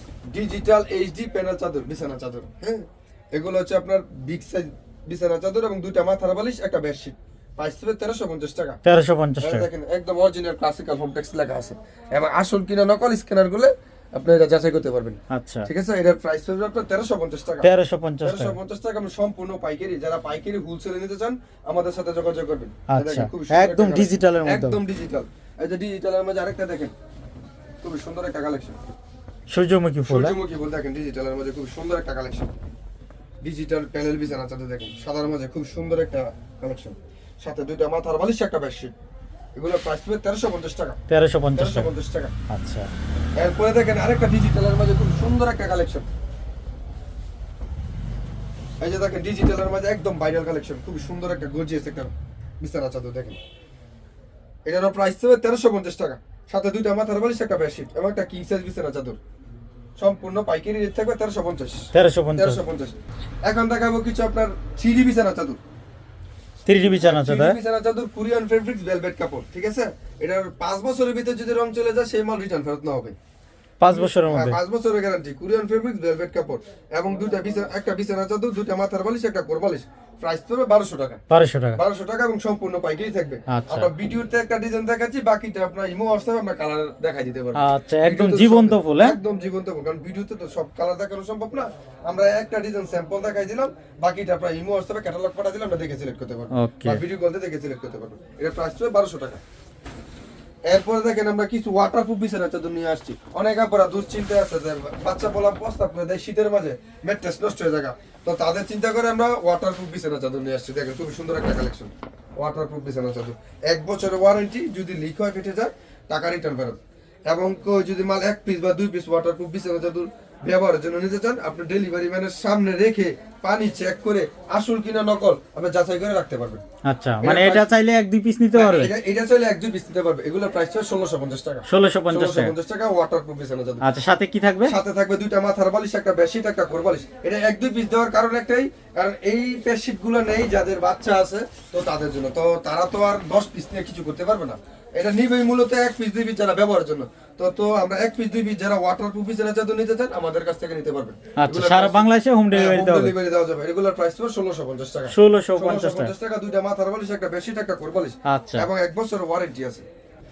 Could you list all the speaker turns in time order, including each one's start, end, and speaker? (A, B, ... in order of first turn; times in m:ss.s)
0:00.3-0:08.8 A
0:08.8-0:09.7 B
0:09.4-0:17.7 A
0:15.3-0:15.7 B
0:17.6-0:18.6 B
0:18.2-0:26.9 A
0:22.9-0:24.8 B
0:27.8-0:28.8 A
0:29.5-0:30.4 B
0:30.0-0:32.5 A
0:33.4-0:38.9 A
0:39.6-0:41.0 A
0:41.1-0:41.9 B
0:41.6-0:42.3 A
0:42.5-0:42.9 B
0:43.4-0:46.1 A
0:48.8-0:53.4 A
0:54.7-0:59.2 A
1:00.0-1:05.6 A
1:01.9-1:02.6 B
1:06.7-1:07.6 B
1:06.8-1:13.1 A
1:13.8-1:14.6 B
1:13.9-1:21.2 A
1:21.3-1:21.8 B
1:21.8-1:39.4 A
1:23.5-1:23.9 B
1:27.6-1:29.2 B
1:36.6-1:37.0 B
1:40.7-2:06.6 A
2:06.8-2:08.9 B
2:07.2-2:07.7 A
2:08.6-2:13.8 A
2:11.7-2:12.5 B
2:13.8-2:14.7 B
2:14.7-2:39.8 A
2:31.4-2:33.1 B
2:35.1-2:36.1 B
2:38.3-2:38.7 B